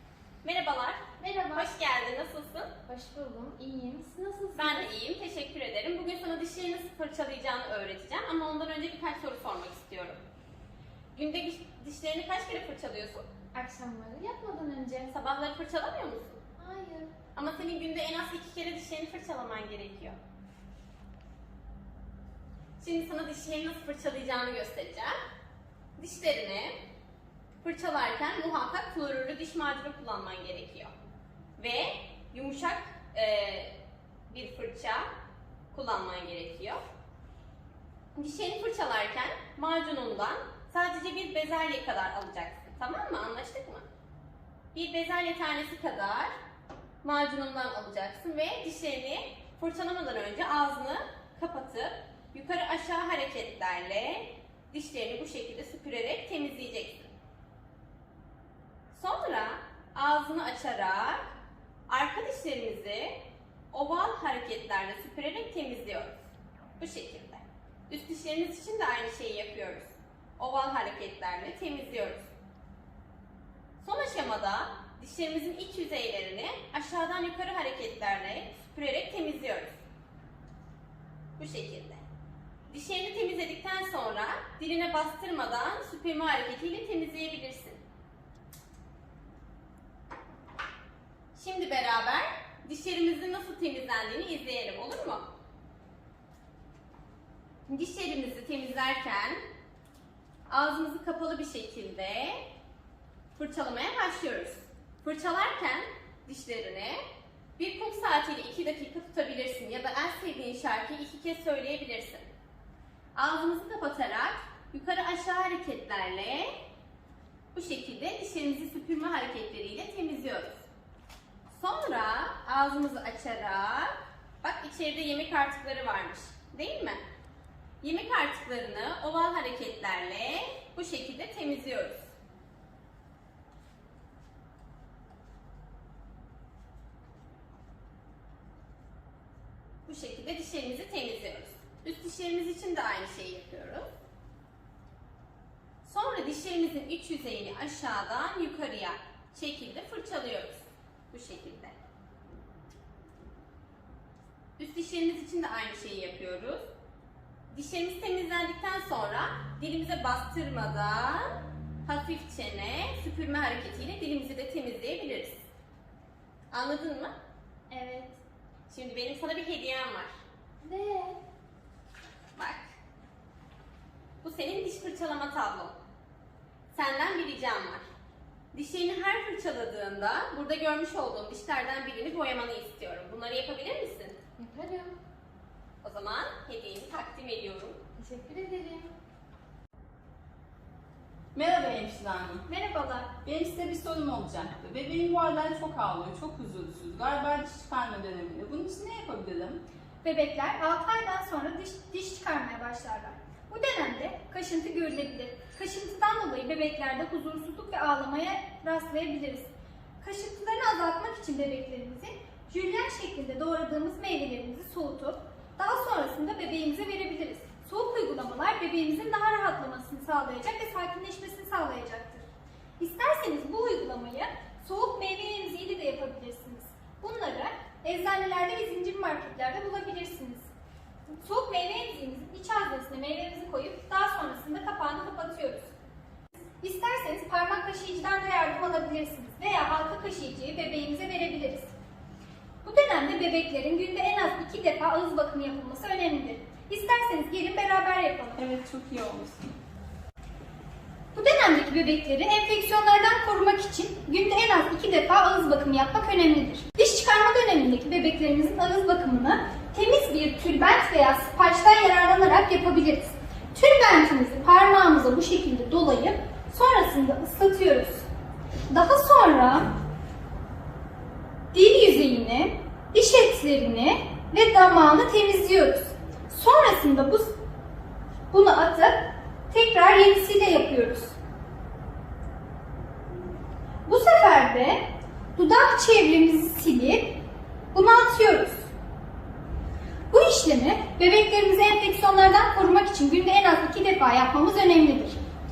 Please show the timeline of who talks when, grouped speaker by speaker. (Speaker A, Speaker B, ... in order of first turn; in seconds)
Speaker A: 0.4-2.7, 4.6-10.2, 11.1-13.2, 15.1-16.4, 17.4-20.2, 22.8-25.2, 26.0-26.7, 27.6-30.9, 31.6-33.7, 34.3-35.1, 35.7-36.8, 38.1-43.8, 44.7-46.3, 47.0-57.1, 58.9-61.3, 61.9-63.2, 63.7-66.2, 66.8-72.3, 73.8-79.8, 81.4-82.0, 82.7-87.8, 91.3-95.3, 97.7-99.4, 100.5-102.4, 103.3-107.0, 107.6-112.3, 113.2-116.5, 117.5-120.6, 121.5-127.0, 127.8-132.1, 139.9-143.8, 145.8-151.8, 154.6-156.6, 157.5-165.4, 166.5-167.1, 168.7-170.1, 172.4-172.7, 174.2-175.8, 176.7-177.8, 178.5-184.2, 185.8-187.8
Speaker B: 1.2-1.7, 2.9-4.9, 13.6-15.1, 16.6-17.1, 170.6-171.2, 184.4-184.9, 188.0-188.9
Speaker C: 191.3-192.4, 193.2-199.6, 248.4-249.5
Speaker D: 192.5-193.1, 200.0-209.5, 210.0-222.2, 222.8-230.5, 231.1-235.7, 236.6-241.7, 242.6-248.4, 251.2-268.0, 268.7-269.7, 271.5-277.3, 278.3-281.1, 283.9-284.8, 285.4-287.1, 287.7-288.7, 290.1-295.2